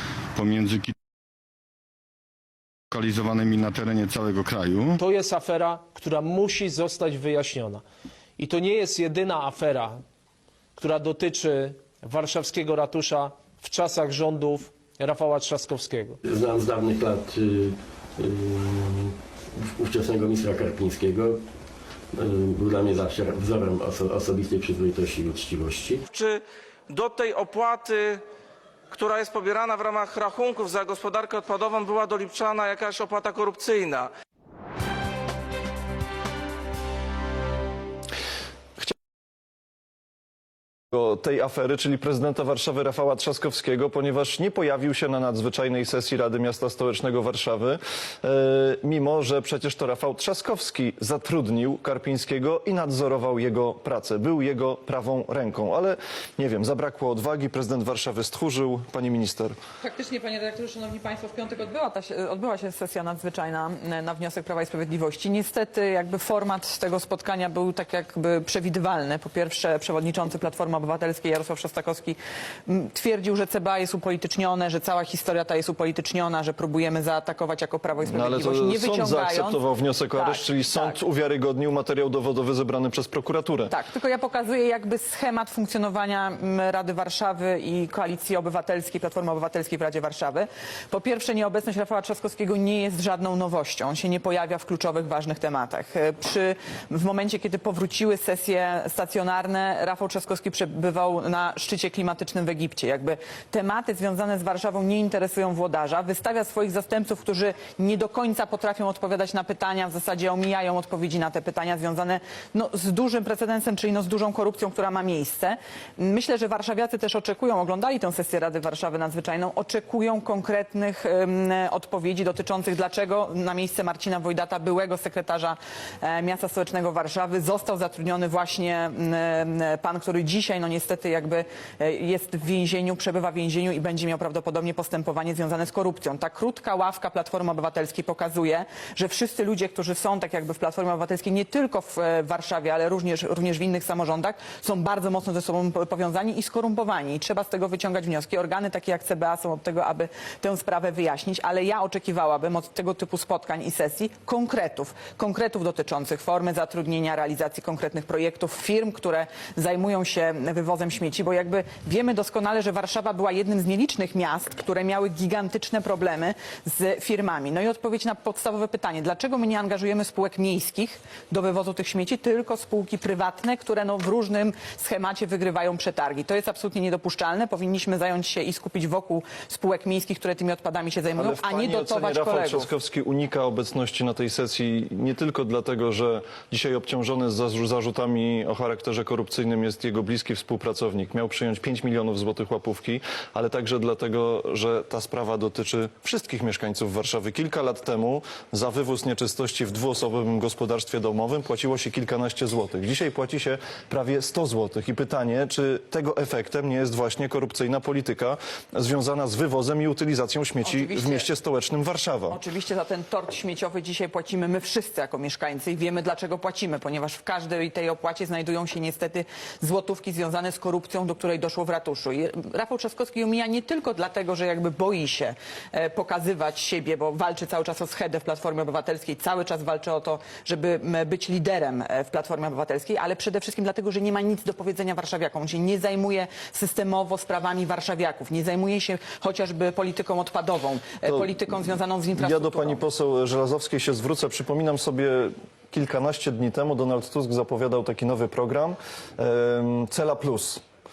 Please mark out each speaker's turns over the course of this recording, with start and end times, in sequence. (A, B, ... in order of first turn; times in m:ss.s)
0:00.3-0:00.9 A
0:02.9-0:05.0 A
0:05.0-0:07.8 B
0:08.4-0:10.0 B
0:10.8-0:16.2 B
0:16.2-0:21.4 C
0:22.1-0:26.0 C
0:26.1-0:28.2 D
0:28.9-0:34.1 D
0:40.9-0:59.5 E
0:59.8-1:21.0 F
1:18.1-1:23.7 E
1:23.7-3:02.7 F
3:01.2-3:32.4 E
3:30.6-3:31.3 F
3:32.3-4:02.8 F
4:02.2-4:10.6 E